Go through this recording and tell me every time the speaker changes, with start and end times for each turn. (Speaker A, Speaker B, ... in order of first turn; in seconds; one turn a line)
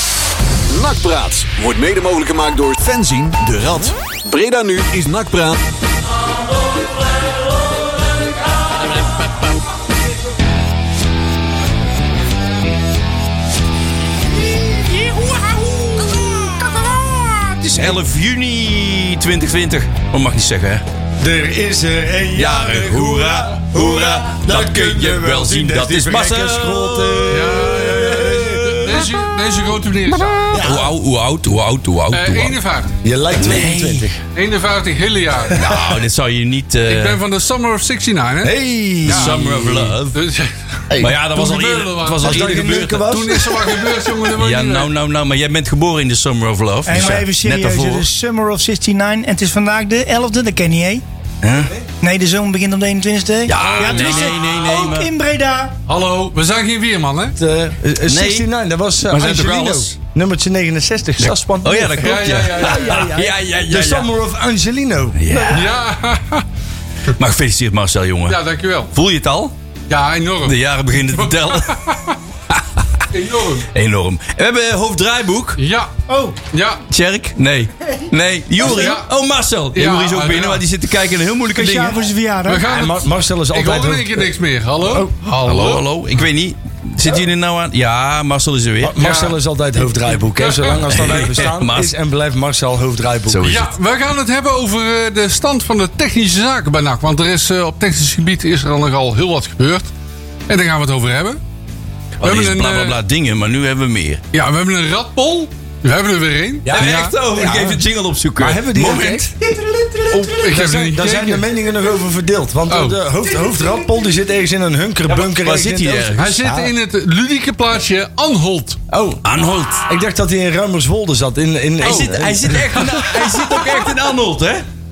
Speaker A: 0.7-5.6
Speaker B: 14.6-20.9
Speaker C: 21.2-29.1
Speaker B: 22.4-29.1
Speaker D: 27.3-30.7
Speaker B: 30.3-32.6
Speaker C: 30.5-30.9
Speaker D: 32.1-32.9
Speaker C: 33.0-34.2
Speaker B: 33.3-34.0
Speaker D: 34.4-35.6
Speaker C: 35.5-36.0
Speaker B: 35.5-37.2
Speaker D: 36.9-38.5
Speaker C: 38.4-40.0
Speaker B: 39.0-40.2
Speaker D: 39.1-39.3
Speaker D: 40.1-40.5
Speaker C: 40.9-41.2
Speaker B: 41.0-43.4
Speaker D: 41.3-44.9
Speaker C: 42.2-43.9
Speaker B: 44.3-48.1
Speaker E: 46.9-51.0
Speaker B: 51.4-51.7
Speaker E: 52.0-55.8
Speaker B: 53.5-55.1
Speaker D: 53.5-54.4
Speaker D: 55.9-57.4
Speaker C: 57.4-65.7
Speaker B: 58.0-58.5
Speaker B: 59.1-59.9
Speaker B: 61.2-64.1
Speaker D: 61.9-63.1
Speaker B: 65.2-65.7
Speaker D: 65.5-66.5
Speaker B: 67.2-68.4
Speaker D: 68.3-68.9
Speaker B: 68.9-69.5
Speaker D: 69.9-72.2
Speaker B: 70.5-71.7
Speaker B: 72.5-73.0
Speaker D: 73.1-73.7
Speaker B: 73.7-75.6
Speaker D: 75.6-75.9
Speaker E: 76.1-76.4
Speaker D: 76.5-76.8
Speaker B: 76.9-82.0
Speaker D: 78.6-79.1
Speaker D: 79.7-80.6
Speaker E: 81.5-82.7
Speaker D: 82.5-85.8
Speaker C: 82.7-85.1
Speaker B: 85.4-89.0
Speaker C: 88.8-93.5
Speaker D: 89.0-90.8
Speaker B: 90.9-91.9
Speaker B: 93.3-93.7
Speaker D: 93.4-99.9
Speaker D: 100.5-101.4
Speaker B: 102.2-104.2
Speaker D: 102.2-103.0
Speaker D: 104.3-107.2
Speaker C: 106.7-107.8
Speaker B: 106.8-109.3
Speaker C: 108.4-109.3
Speaker E: 109.6-110.1
Speaker D: 110.1-111.5
Speaker C: 110.2-116.7
Speaker D: 112.7-113.0
Speaker E: 113.4-113.8
Speaker B: 115.1-116.3
Speaker D: 116.2-118.8
Speaker C: 118.9-119.2
Speaker B: 119.2-119.9
Speaker C: 119.8-122.8
Speaker B: 121.8-124.7
Speaker D: 121.8-122.1
Speaker D: 122.7-123.7